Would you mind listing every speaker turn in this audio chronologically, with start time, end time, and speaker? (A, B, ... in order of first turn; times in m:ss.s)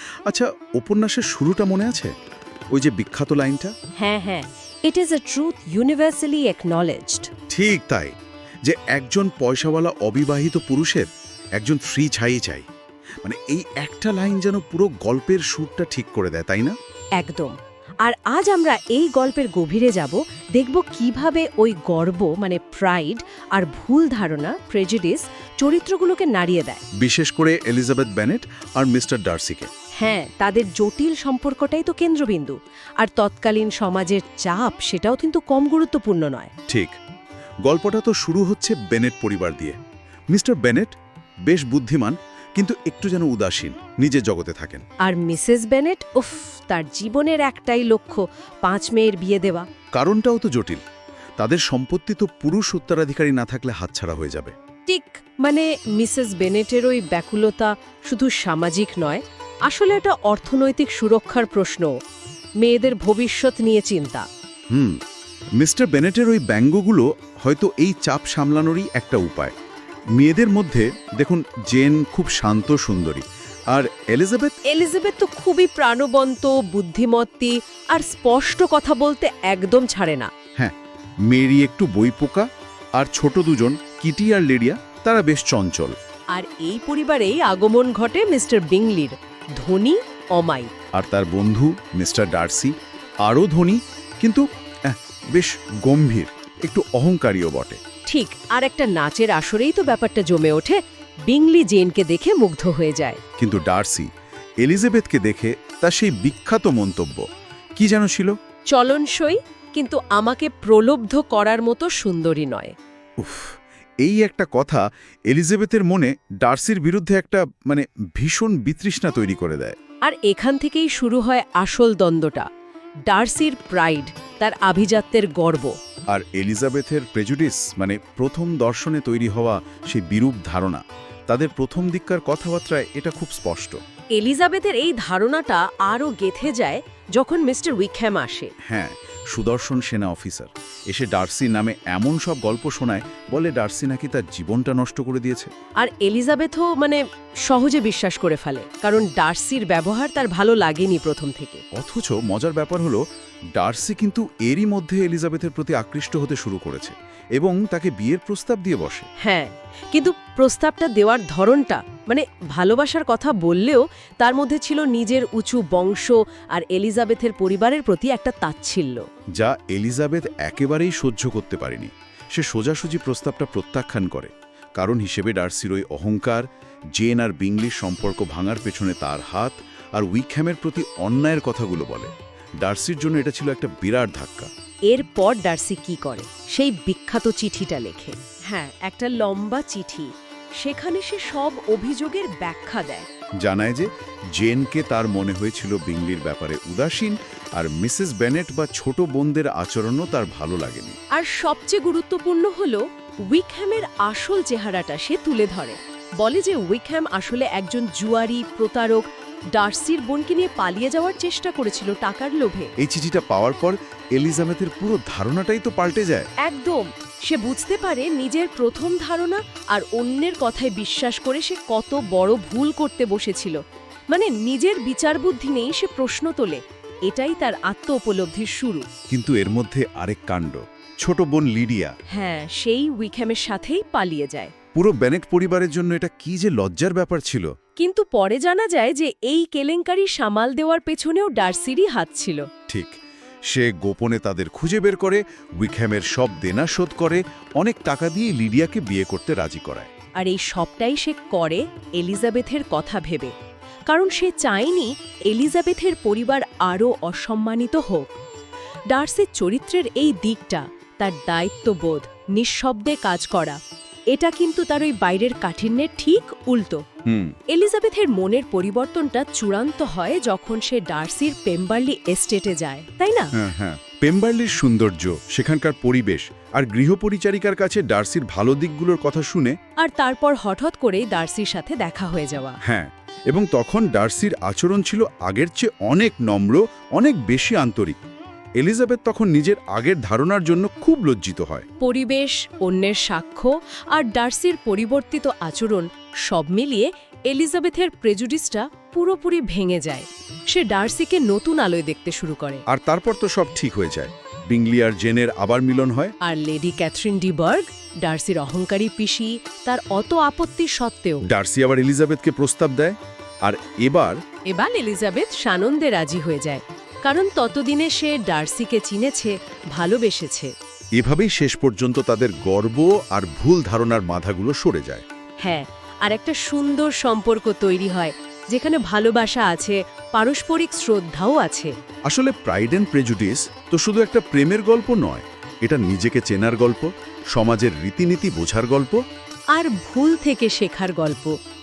0:00.2-0:02.1 A
0:02.7-0:03.7 A
0:04.0-0:07.3 B
0:07.5-0:12.7 A
0:13.2-0:16.8 A
0:17.2-0:26.8 B
0:27.0-0:29.7 A
0:30.0-0:36.5 B
0:36.7-0:36.9 A
0:37.6-0:39.8 A
0:40.3-0:40.9 A
0:41.5-0:44.8 A
0:45.0-0:49.6 B
0:49.9-0:50.8 A
0:51.4-0:54.5 A
0:54.9-1:01.9 B
1:02.6-1:04.2 B
1:04.7-1:05.0 A
1:05.6-1:09.5 A
1:10.2-1:14.6 A
1:14.6-1:20.3 B
1:21.3-1:26.0 A
1:26.3-1:30.7 B
1:30.9-1:37.8 A
1:38.1-1:43.2 B
1:43.4-1:44.1 A
1:44.6-1:47.2 A
1:47.8-1:48.4 A
1:48.7-1:52.7 B
1:53.2-1:59.7 A
2:00.0-2:02.5 B
2:03.1-2:05.8 B
2:06.1-2:13.8 A
2:14.1-2:18.5 B
2:18.6-2:25.5 A
2:25.8-2:31.6 B
2:31.7-2:33.0 A
2:33.6-2:39.1 A
2:39.2-2:49.0 B
2:49.3-3:04.5 A
3:04.9-3:13.1 B
3:13.4-3:21.0 A
3:21.1-3:32.7 B
3:32.8-3:36.3 A
3:36.4-3:43.6 B
3:44.1-3:48.8 B
3:49.1-3:51.9 A
3:52.1-3:54.5 B
3:54.7-3:57.5 A
3:57.8-4:02.4 B
4:02.7-4:03.0 A
4:03.5-4:09.9 A
4:10.2-4:13.3 B
4:13.9-4:18.1 B
4:18.9-4:23.6 B
4:24.1-4:26.8 B
4:27.0-4:27.4 A
4:27.5-4:33.3 B
4:33.3-4:39.6 A
4:39.8-4:42.6 B
4:42.6-4:48.0 A
4:48.6-4:51.7 A
4:51.8-5:02.6 B
5:02.7-5:06.1 A
5:06.2-5:11.2 B
5:11.2-5:14.2 A
5:14.5-5:20.5 B
5:21.0-5:25.0 A
5:25.4-5:31.7 B
5:32.1-5:39.0 A
5:39.5-5:41.3 B